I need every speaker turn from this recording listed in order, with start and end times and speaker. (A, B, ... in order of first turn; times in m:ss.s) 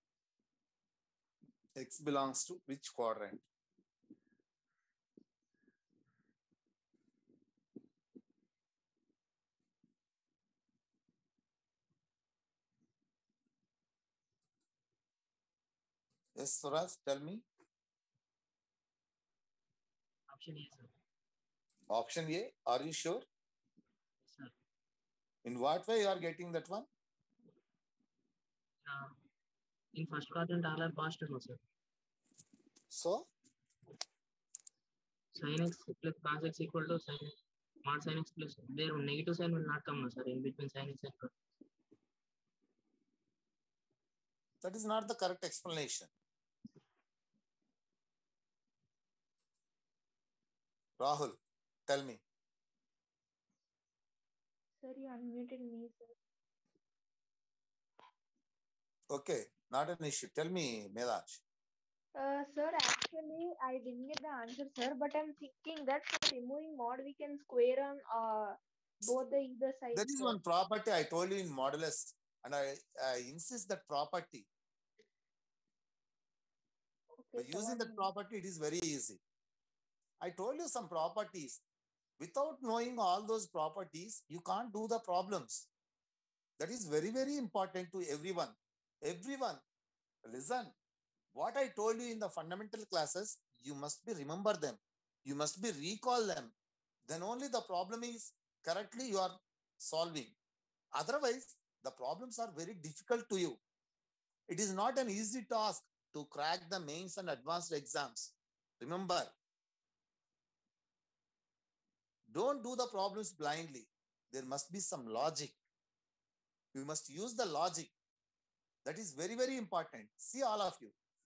0:01.8-0:03.4 A
0:16.4-0:17.4 A
0:20.3-0:20.9 B
0:21.9-0:23.2 A
0:24.2-0:24.5 B
0:25.4-0:26.9 A
0:28.8-0:29.1 B
0:30.0-0:31.6 B
0:32.9-0:33.3 A
0:35.4-0:37.3 B
0:37.8-0:41.3 B
0:44.6-0:46.1 A
0:51.0-0:51.4 A
0:51.9-0:52.2 A
0:54.8-0:56.1 C
0:59.1-1:01.4 A
1:02.2-1:10.4 C
1:09.9-1:14.5 A
1:17.2-1:18.1 C
1:17.4-1:19.2 A
1:20.2-1:21.6 A
1:22.2-1:25.7 A
1:26.6-1:29.6 A
1:30.3-1:30.7 A
1:31.3-1:36.5 A
1:37.0-1:40.3 A
1:40.9-1:43.6 A
1:44.5-1:49.3 A
1:52.3-1:55.6 A
1:56.7-1:57.9 A
1:58.8-2:00.9 A